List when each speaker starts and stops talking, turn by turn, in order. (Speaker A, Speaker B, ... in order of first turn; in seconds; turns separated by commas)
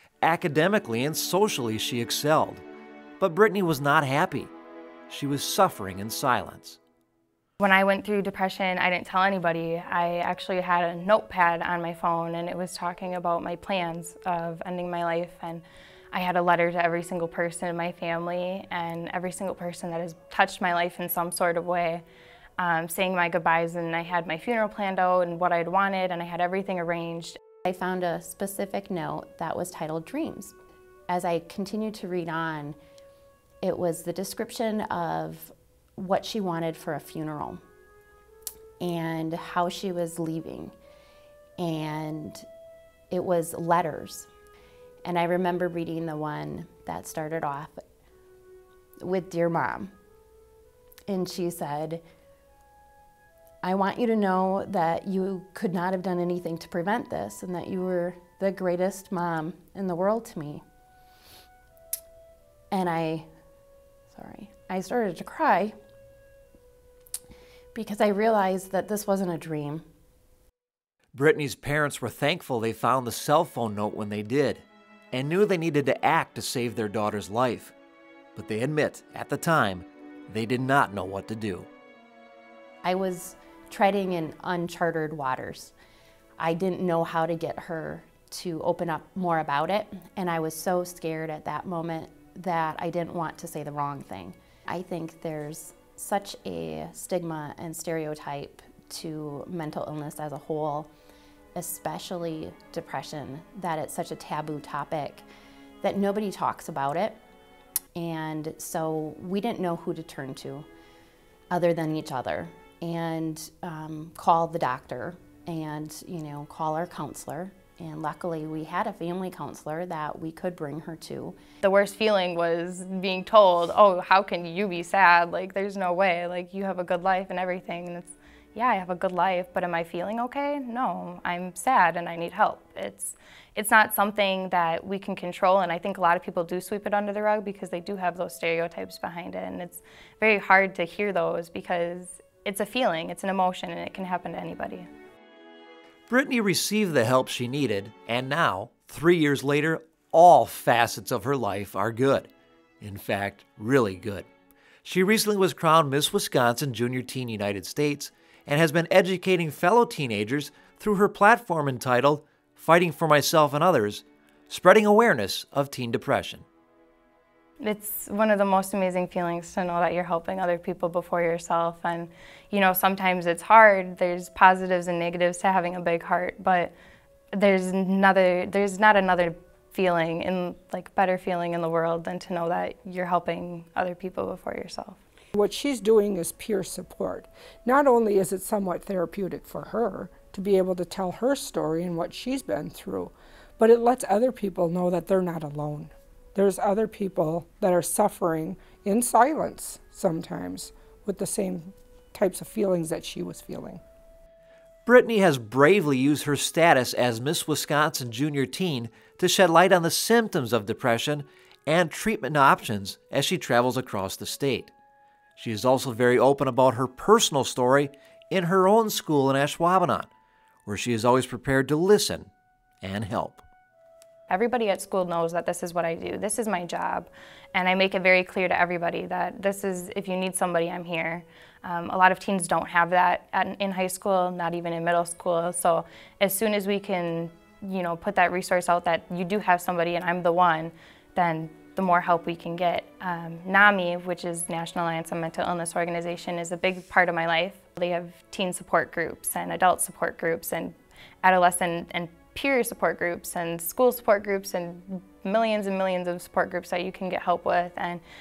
Speaker A: 0.2-2.6, Speaker A: 3.2-4.5, Speaker A: 5.1-6.8, Speaker B: 7.6-22.0, Speaker B: 22.6-27.4, Speaker C: 27.6-30.5, Speaker C: 31.1-32.8, Speaker C: 33.6-37.6, Speaker C: 38.8-40.7, Speaker C: 41.6-42.4, Speaker C: 43.1-44.3, Speaker C: 45.0-47.8, Speaker C: 49.0-49.9, Speaker C: 51.1-52.0, Speaker C: 53.6-60.6, Speaker C: 62.7-63.3, Speaker C: 64.1-65.7, Speaker C: 67.7-69.8, Speaker A: 71.1-77.7, Speaker A: 78.3-81.7, Speaker C: 82.8-85.7, Speaker C: 86.4-100.9, Speaker C: 101.5-105.3, Speaker C: 105.8-107.2, Speaker C: 107.9-110.7, Speaker C: 111.5-121.4, Speaker B: 121.6-144.9, Speaker A: 146.1-152.3, Speaker A: 152.8-154.3, Speaker A: 154.8-166.4, Speaker B: 167.6-176.7, Speaker B: 177.3-185.0, Speaker D: 185.3-203.8, Speaker A: 204.8-214.7, Speaker A: 215.4-220.1, Speaker A: 220.7-222.3, Speaker A: 222.8-223.4, Speaker B: 224.3-258.0